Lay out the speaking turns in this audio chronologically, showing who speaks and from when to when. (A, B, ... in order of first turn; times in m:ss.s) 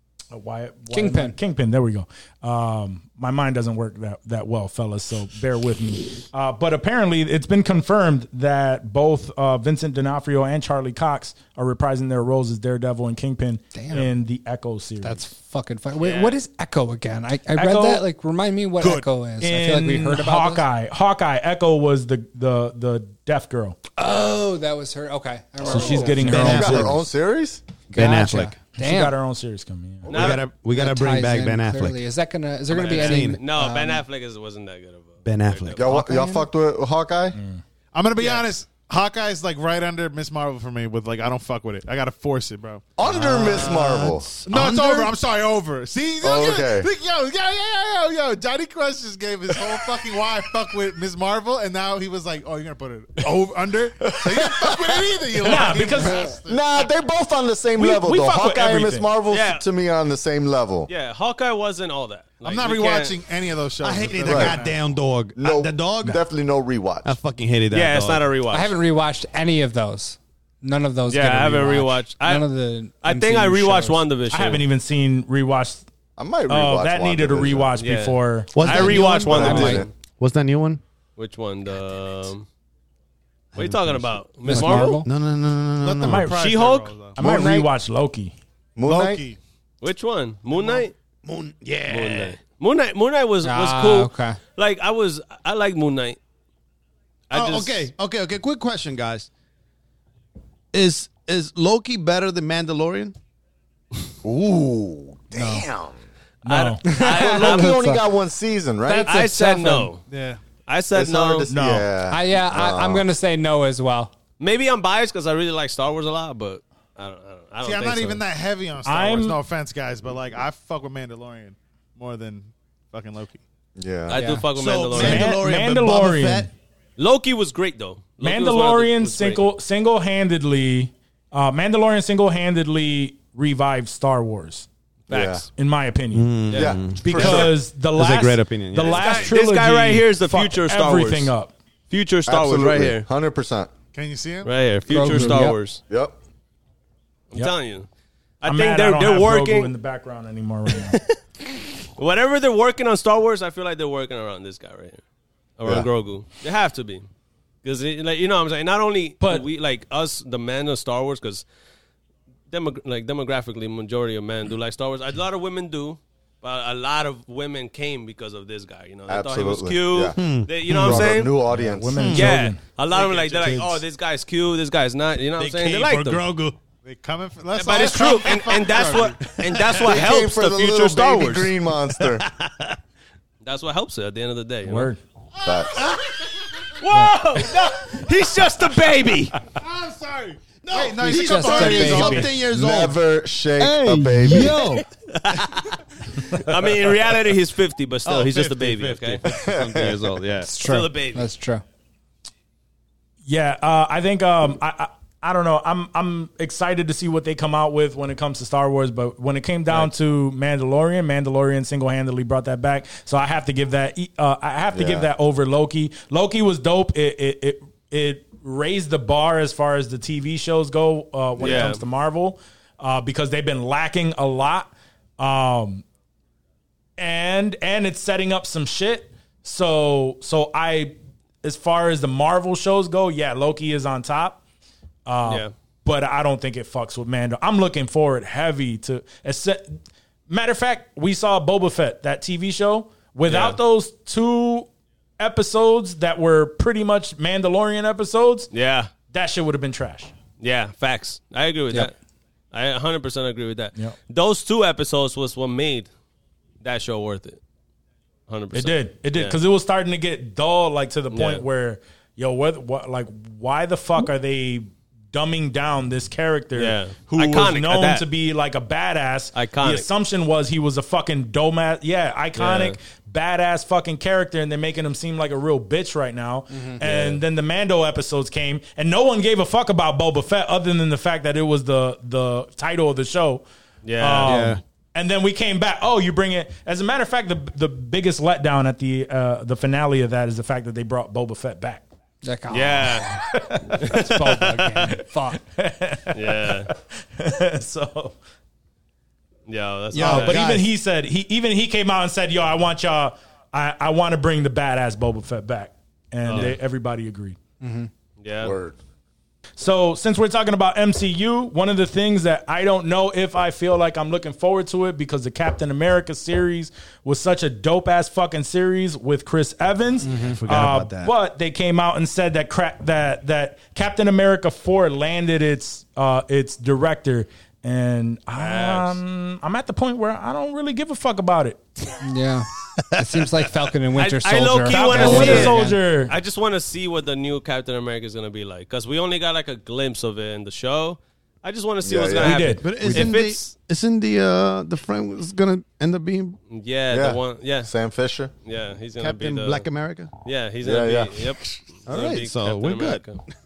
0:00.3-0:15.2 A
0:00.9-0:01.4 B
0:13.7-0:14.1 B
0:15.0-0:20.7 B
0:16.0-0:16.4 C
0:17.5-0:18.0 A
0:18.8-0:23.8 A
0:24.0-0:26.9 B
0:25.6-0:26.9 A
0:25.8-0:27.0 D
0:26.3-0:27.6 E
0:27.9-0:28.6 D
0:27.9-0:29.2 B
0:28.7-0:30.3 A
0:30.1-0:32.0 D
0:30.1-0:30.5 C
0:30.7-0:34.0 B
0:32.7-0:33.4 D
0:32.7-0:35.9 C
0:35.2-0:36.0 D
0:35.7-0:37.4 E
0:35.9-0:36.5 B
0:37.4-0:37.6 A
0:37.9-0:42.8 F
0:43.0-0:44.3 E
0:43.1-0:45.2 D
0:44.4-0:56.6 F
0:46.2-0:46.9 E
0:54.0-0:55.6 E
0:55.4-0:56.4 A
0:56.4-1:00.9 E
0:57.7-0:59.1 A
0:59.3-0:59.6 C
1:00.9-1:03.2 C
1:02.4-1:04.8 F
1:03.8-1:06.2 D
1:04.3-1:04.6 E
1:05.4-1:07.2 E
1:07.0-1:08.3 D
1:07.7-1:08.7 C
1:08.5-1:14.0 B
1:11.1-1:12.5 C
1:13.0-1:14.6 C
1:14.3-1:15.8 A
1:16.2-1:17.7 E
1:16.5-1:19.8 A
1:17.8-1:19.9 C
1:18.5-1:20.8 D
1:18.8-1:19.8 B
1:19.2-1:19.9 E
1:21.2-1:22.4 C
1:23.5-1:26.4 D
1:23.6-1:25.0 C
1:24.4-1:25.1 B
1:25.8-1:27.2 F
1:26.0-1:28.3 A
1:27.2-1:27.7 E
1:28.8-1:29.2 E
1:28.8-1:29.4 F
1:29.8-1:30.9 C
1:30.6-1:30.8 F
1:31.2-1:32.4 D
1:31.9-1:36.2 C
1:33.4-1:34.4 B
1:37.3-1:37.9 C
1:37.3-1:39.3 D
1:40.7-1:43.2 D
1:44.2-1:45.9 E
1:45.4-1:45.6 B
1:46.4-1:46.9 A
1:46.4-1:47.8 C
1:46.8-1:48.0 B
1:47.0-1:49.2 E
1:48.9-1:49.9 B
1:49.0-1:50.0 C
1:50.1-1:50.4 F
1:50.7-1:51.5 C
1:50.9-1:53.1 E
1:51.5-1:51.9 A
1:52.1-1:54.1 B
1:54.4-1:58.2 C
1:57.6-2:03.4 F
1:58.8-1:59.4 A
2:03.8-2:04.2 E
2:04.1-2:05.4 C
2:04.1-2:04.4 B
2:04.6-2:06.5 D
2:04.9-2:06.5 A
2:07.0-2:09.5 C
2:08.2-2:14.7 A
2:15.1-2:15.4 E
2:15.2-2:21.5 A
2:16.1-2:19.3 D
2:16.5-2:16.8 C
2:16.5-2:17.5 E
2:18.8-2:21.3 C
2:21.9-2:23.1 C
2:22.3-2:23.7 E
2:23.9-2:24.5 F
2:24.4-2:25.8 C
2:24.9-2:25.6 B
2:25.9-2:26.2 E
2:27.3-2:27.9 C
2:28.4-2:29.7 C
2:28.4-2:31.0 A
2:30.7-2:31.2 C
2:32.0-2:35.0 C
2:35.6-2:37.1 C
2:37.6-2:41.4 C
2:42.5-2:51.3 C
2:49.1-2:52.1 E
2:50.2-2:51.0 D
2:51.5-2:53.8 A
2:51.9-2:52.4 D
2:52.0-2:56.3 C
2:55.4-2:56.6 D
2:56.8-2:59.4 F
2:57.6-3:01.6 C
2:59.5-3:00.0 D
2:59.8-3:02.3 E
3:02.0-3:02.7 D
3:03.4-3:04.9 C
3:04.6-3:05.0 A
3:05.4-3:06.3 F
3:05.4-3:05.9 E
3:06.8-3:09.4 C
3:06.9-3:07.5 A
3:09.6-3:12.3 F
3:10.6-3:13.0 D
3:11.0-3:12.3 B
3:12.4-3:14.6 E
3:13.6-3:14.8 D
3:15.1-3:15.8 C
3:16.3-3:19.2 C
3:18.0-3:20.7 D
3:19.2-3:20.1 E
3:20.4-3:21.6 B
3:20.6-3:21.3 C
3:23.3-3:45.8 A
3:34.7-3:35.1 E
3:41.4-3:41.7 E
3:41.4-3:41.8 C
3:47.0-3:54.4 A
3:55.1-3:59.8 A
3:55.2-3:55.5 C
4:00.3-4:04.7 A
4:03.3-4:03.6 C
4:05.2-4:08.5 A
4:08.5-4:08.9 C
4:09.1-4:10.1 A
4:10.4-4:11.9 C
4:12.5-4:15.9 C
4:16.6-4:17.4 C
4:18.3-4:19.4 C
4:18.5-4:43.4 A
4:21.1-4:21.4 C
4:26.6-4:28.0 C
4:29.4-4:29.9 C
4:32.4-4:32.8 C
4:36.5-4:36.8 B
4:36.8-4:37.2 C
4:43.8-4:44.5 C
4:44.0-4:51.8 A
4:44.2-4:44.6 D
4:52.2-4:55.4 B
4:52.5-4:53.1 C
4:53.2-4:53.8 A
4:53.8-4:54.9 C
4:55.3-4:58.2 A
4:56.1-4:56.7 C
4:59.5-5:00.4 C
4:59.9-5:00.7 D
5:00.0-5:07.4 A
5:06.2-5:06.6 C
5:07.6-5:07.9 B
5:08.2-5:08.6 C
5:08.4-5:08.8 E
5:09.6-5:31.6 A
5:20.0-5:20.4 B
5:20.1-5:21.1 D
5:28.4-5:29.0 C
5:32.0-5:35.8 B
5:33.9-5:43.5 C
5:34.7-5:36.2 A
5:41.8-5:42.5 E
5:42.2-5:43.1 A
5:42.6-5:46.4 D
5:46.5-5:47.7 C
5:46.9-5:48.3 E
5:48.4-5:49.7 C
5:49.0-5:50.1 D
5:50.2-5:53.2 C
5:50.6-5:51.4 E
5:51.9-5:53.0 D